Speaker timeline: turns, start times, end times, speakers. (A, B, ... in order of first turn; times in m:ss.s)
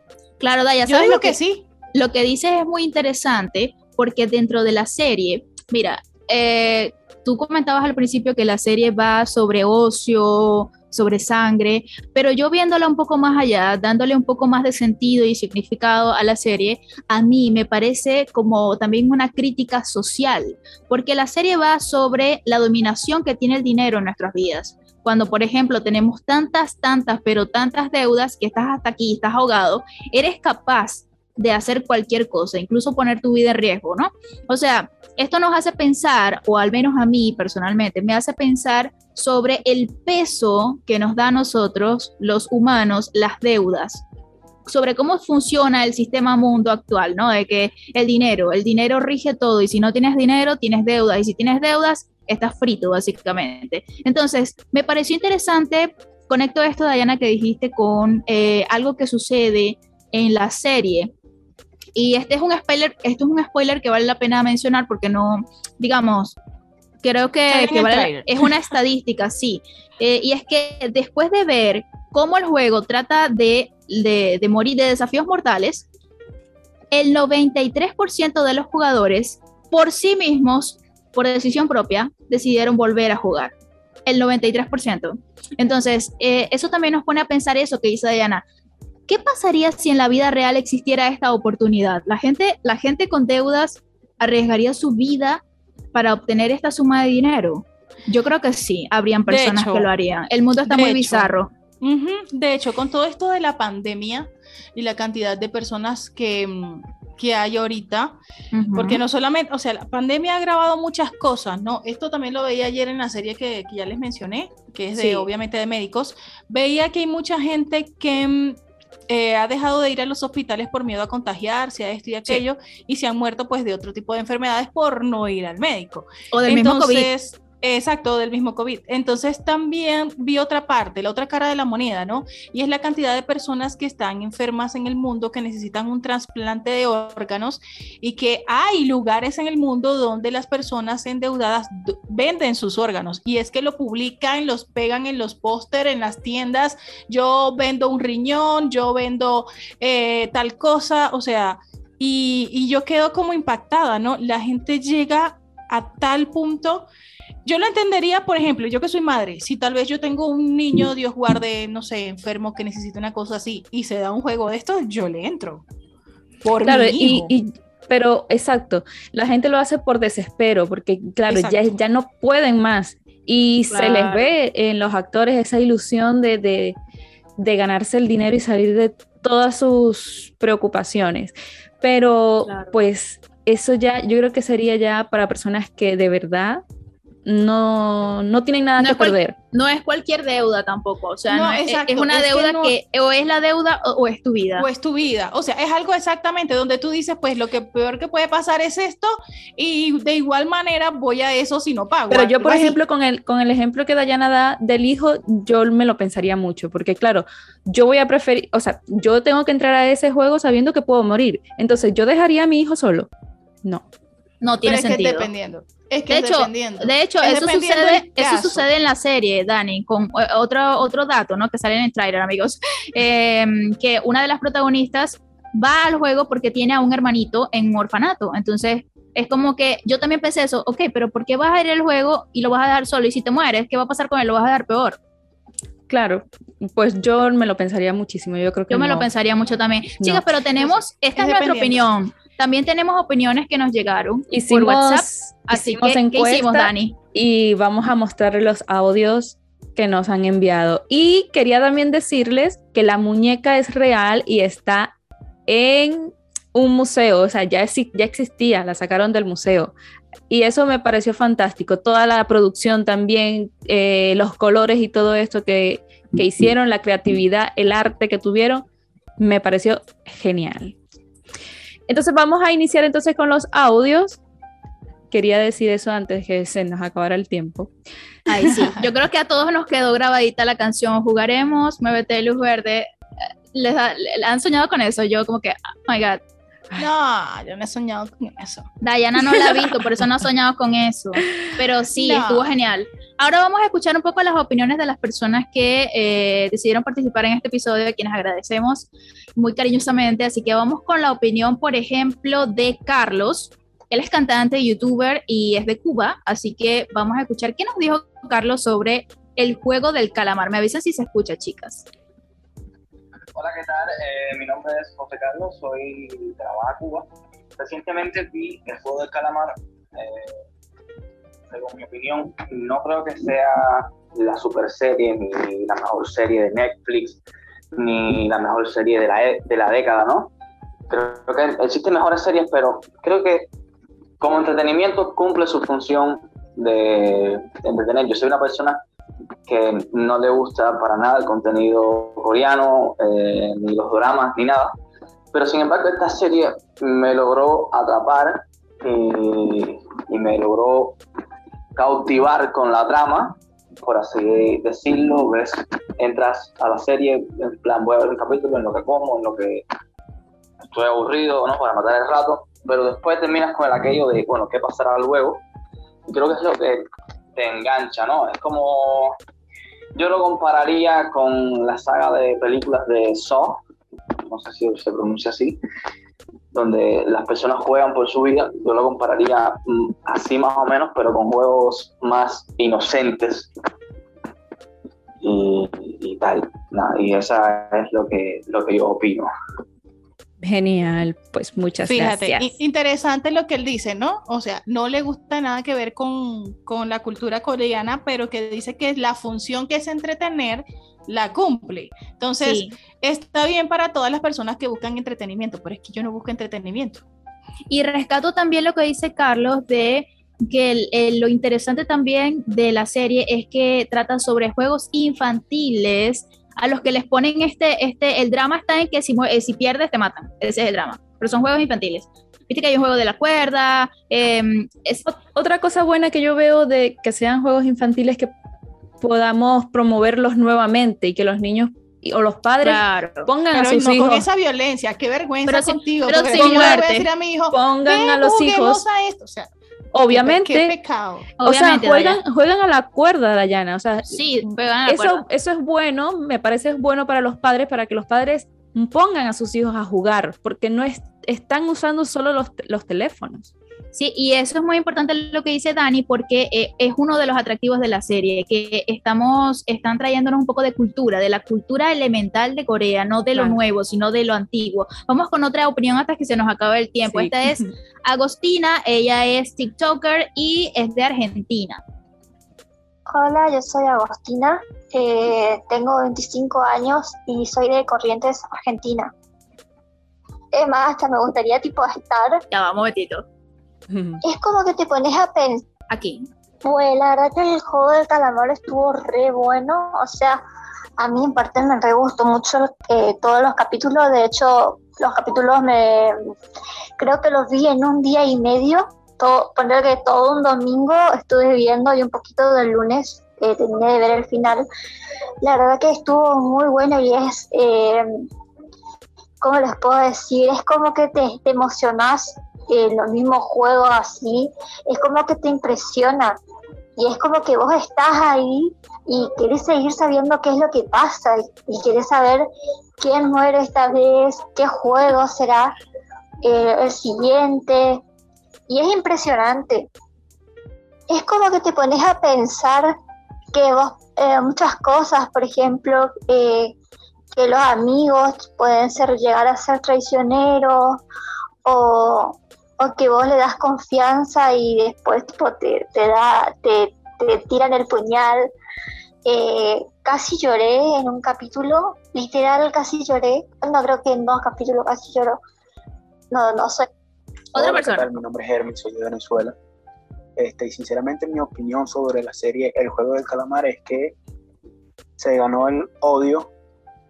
0:00.4-0:01.4 A
0:00.8-0:01.7 B
0:01.9-0:44.0 A
0:44.7-1:01.1 A
1:02.0-1:06.4 A
1:07.0-1:15.9 A
1:07.5-1:08.6 B
1:16.9-1:23.5 A
1:24.1-1:28.4 A
1:29.1-1:35.4 A
1:35.9-1:41.5 A
1:39.3-1:39.9 B
1:40.6-1:48.2 B
1:48.5-1:49.0 A
1:48.7-2:36.9 B
1:55.0-1:55.3 A
2:06.3-2:07.1 A
2:37.4-2:45.6 B
2:46.4-2:47.3 B
2:46.6-2:56.8 C
2:51.3-2:51.7 B
2:53.7-2:54.3 A
2:57.4-3:06.6 C
3:02.5-3:02.7 A
3:07.2-3:09.4 C
3:08.8-3:14.7 A
3:11.3-3:12.8 B
3:14.6-3:22.8 B
3:22.1-3:33.1 C
3:34.4-3:35.3 A
3:34.6-3:38.6 B
3:36.1-3:55.0 A
3:55.9-3:59.1 C
3:58.7-4:07.0 A
4:00.6-4:01.9 B
4:04.3-4:14.9 C
4:15.5-4:19.7 C
4:20.3-4:28.7 C
4:29.2-4:30.8 C
4:31.9-4:34.2 C
4:35.1-4:37.7 C
4:38.3-4:42.9 A
4:38.5-4:38.8 B
4:43.5-4:46.2 A
4:46.8-4:48.7 B
4:48.8-5:11.9 A
4:52.0-4:52.5 B
5:13.3-5:20.4 D
5:21.5-5:27.2 D
5:27.7-5:30.3 D
5:30.9-5:33.5 D
5:34.2-5:38.8 D
5:39.5-5:44.7 D
5:45.3-5:51.0 D
5:51.8-5:59.7 D
6:00.6-6:05.4 D
6:06.1-6:06.8 D
6:07.4-6:09.2 D
6:10.0-6:13.6 D
6:14.3-6:15.6 D
6:16.5-6:23.5 D
6:25.2-6:29.3 D
6:30.4-6:32.5 C
6:31.9-6:47.0 B
6:42.4-6:42.7 A
6:47.7-7:05.0 A
7:05.1-7:08.3 C
7:09.0-7:14.3 C
7:12.6-7:13.3 A
7:13.5-7:19.5 B
7:15.5-7:17.1 A
7:16.3-7:16.8 C
7:17.5-7:18.8 C
7:19.9-7:20.8 C
7:20.1-7:21.3 B
7:21.4-7:22.2 A
7:21.4-7:33.5 C
7:24.1-7:25.2 A
7:34.0-7:51.8 A
7:47.1-7:47.7 C
7:53.1-7:59.1 E
8:00.5-8:02.4 E
8:02.5-8:03.2 A
8:03.9-8:04.2 C
8:04.2-8:05.7 E
8:05.9-8:06.3 A
8:06.6-8:10.4 E
8:11.0-8:16.2 E
8:17.0-8:24.7 E
8:25.4-8:28.3 E
8:29.4-8:36.4 E
8:37.0-8:42.5 E
8:43.0-8:45.7 E
8:46.4-8:48.0 E
8:48.7-8:49.9 E
8:51.1-8:52.9 E
8:53.5-8:56.8 E
8:57.3-9:01.0 E
9:01.6-9:08.5 E
9:09.3-9:15.4 E
9:16.3-9:16.9 E
9:17.5-9:18.1 A
9:17.6-9:19.5 F
9:20.4-9:24.2 F
9:25.2-9:26.5 F